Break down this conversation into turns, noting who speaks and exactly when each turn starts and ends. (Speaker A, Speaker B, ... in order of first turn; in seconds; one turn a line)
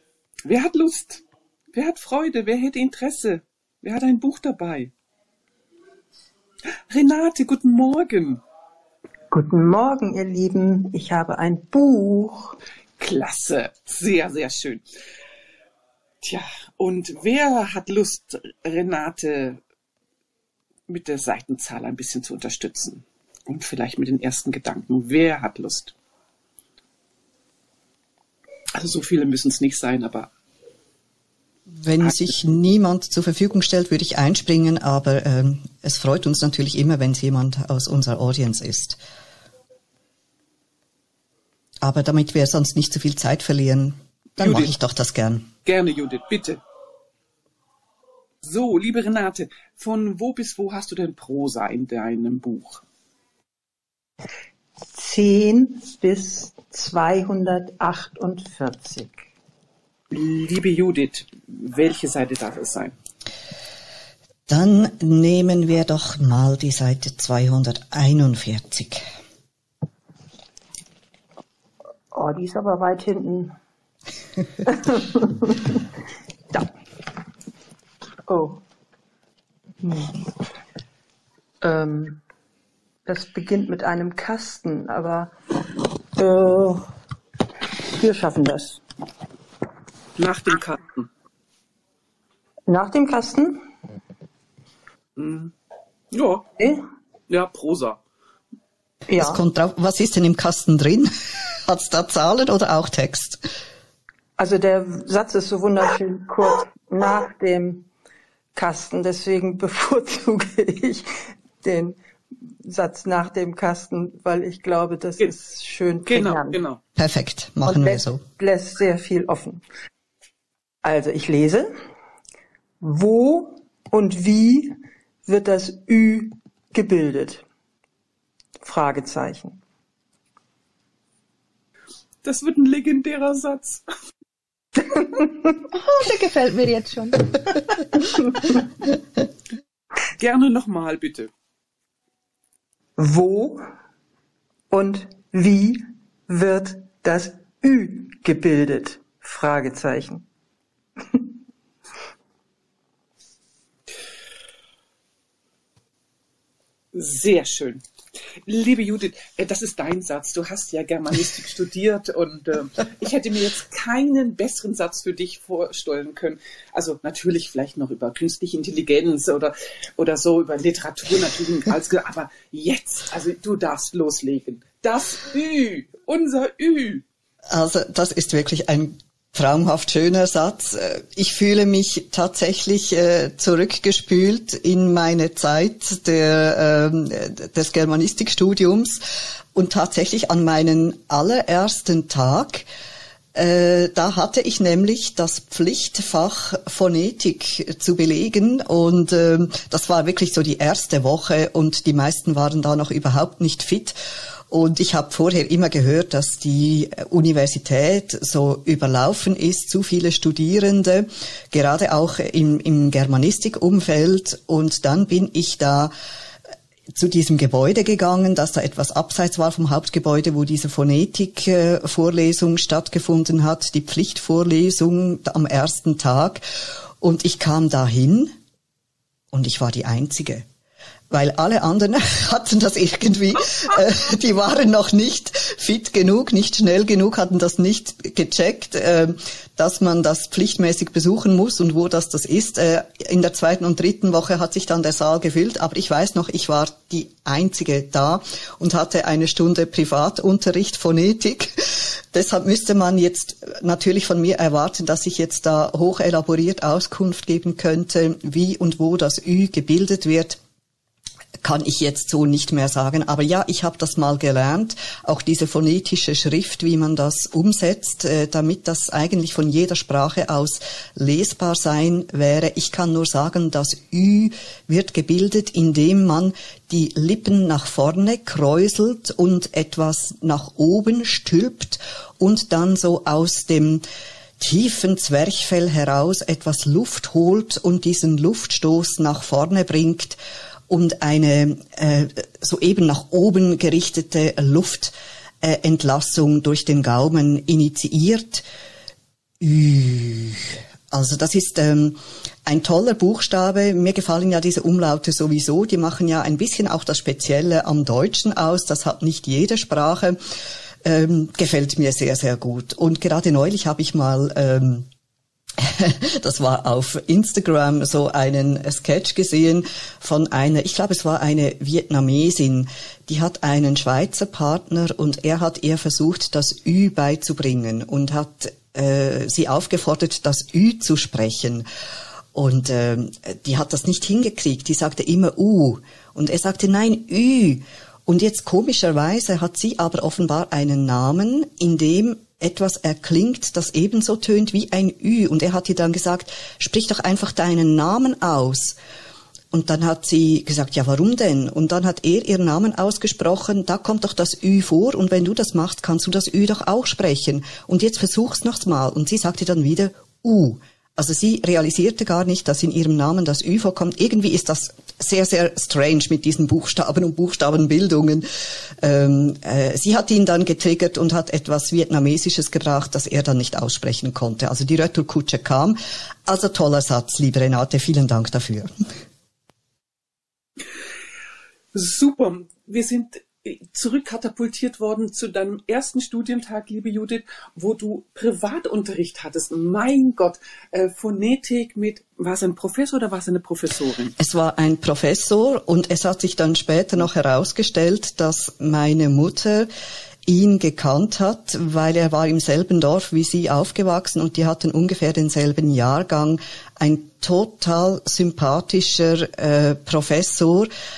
Speaker A: 0.5-4.9
Speaker A: 6.9-8.4
Speaker B: 9.3-12.6
Speaker A: 13.0-14.8
Speaker A: 16.2-19.6
Speaker A: 20.9-25.9
Speaker A: 28.8-30.3
Speaker C: 31.7-39.0
Speaker A: 32.0-32.4
Speaker C: 41.8-45.5
Speaker A: 44.4-44.7
Speaker A: 45.6-46.6
Speaker A: 48.4-52.8
Speaker B: 54.9-59.2
Speaker A: 60.1-62.9
Speaker C: 64.5-69.0
Speaker B: 72.1-73.5
Speaker B: 74.7-75.8
Speaker B: 78.3-78.6
Speaker B: 79.8-80.2
Speaker B: 81.6-82.2
Speaker B: 83.1-85.3
Speaker B: 86.2-86.9
Speaker B: 87.9-88.8
Speaker A: 90.2-91.1
Speaker B: 92.7-93.6
Speaker A: 95.2-95.5
Speaker A: 96.1-96.5
Speaker A: 97.3-98.0
Speaker B: 99.1-99.4
Speaker C: 99.2-101.1
Speaker C: 101.7-103.4
Speaker B: 104.4-107.9
Speaker B: 108.5-111.1
Speaker B: 111.6-112.0
Speaker B: 112.7-116.6
Speaker A: 116.1-116.8
Speaker C: 117.0-118.2
Speaker B: 117.7-119.6
Speaker B: 120.8-121.7
Speaker B: 122.8-127.4
Speaker B: 128.6-129.6
Speaker A: 132.2-133.8
Speaker B: 134.8-135.6
Speaker D: 135.7-138.1
Speaker A: 140.2-141.3
Speaker B: 143.0-143.7
Speaker B: 144.7-150.2
Speaker A: 156.9-157.8
Speaker A: 158.5-177.0
Speaker C: 177.5-192.7
Speaker C: 193.3-204.0
Speaker C: 204.5-215.9
Speaker C: 216.9-226.4
Speaker C: 227.0-228.3
Speaker C: 229.3-230.4
Speaker C: 231.1-260.4
Speaker C: 261.4-283.8
Speaker C: 284.4-290.2
Speaker C: 290.7-298.4
Speaker C: 299.4-310.2
Speaker C: 310.8-314.9
Speaker C: 315.6-331.6
Speaker C: 332.3-348.8
Speaker C: 349.5-368.2
Speaker C: 368.8-378.7
Speaker A: 381.7-394.1
Speaker C: 394.2-399.7
Speaker C: 400.3-410.7